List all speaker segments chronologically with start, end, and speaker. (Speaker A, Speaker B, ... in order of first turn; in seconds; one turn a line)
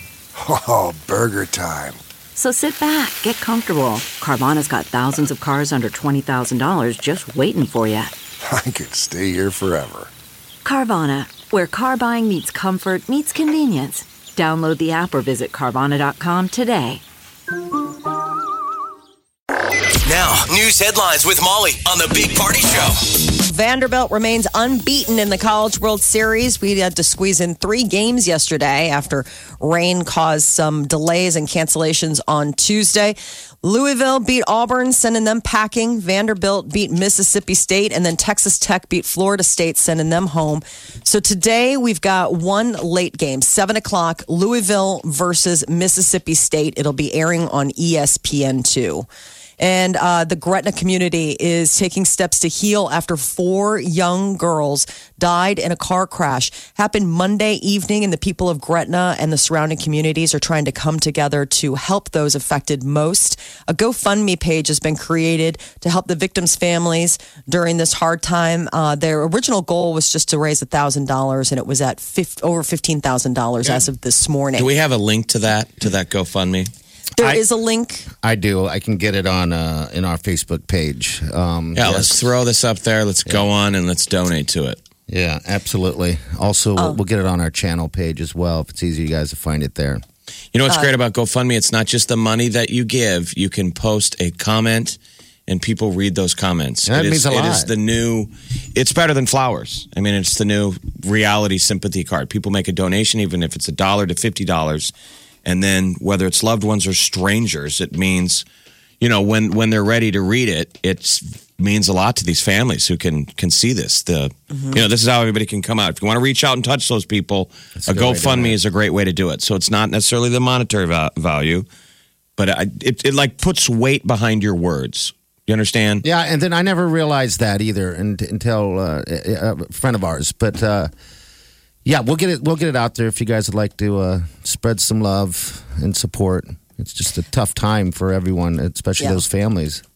Speaker A: 0.3-2.0
Speaker B: 2.4-8.1
Speaker A: 8.4-10.1
Speaker B: 10.6-17.0
Speaker C: 20.0-23.1
Speaker D: 23.4-49.1
Speaker D: 49.6-74.7
Speaker E: 74.5-76.7
Speaker D: 77.2-78.1
Speaker F: 78.2-82.2
Speaker E: 81.8-84.8
Speaker F: 85.1-90.0
Speaker E: 90.5-104.9
Speaker F: 96.9-97.7
Speaker E: 105.4-108.4
Speaker E: 109.0-121.7
Speaker F: 117.8-118.6
Speaker E: 122.4-126.0
Speaker F: 126.0-130.9
Speaker F: 131.8-139.8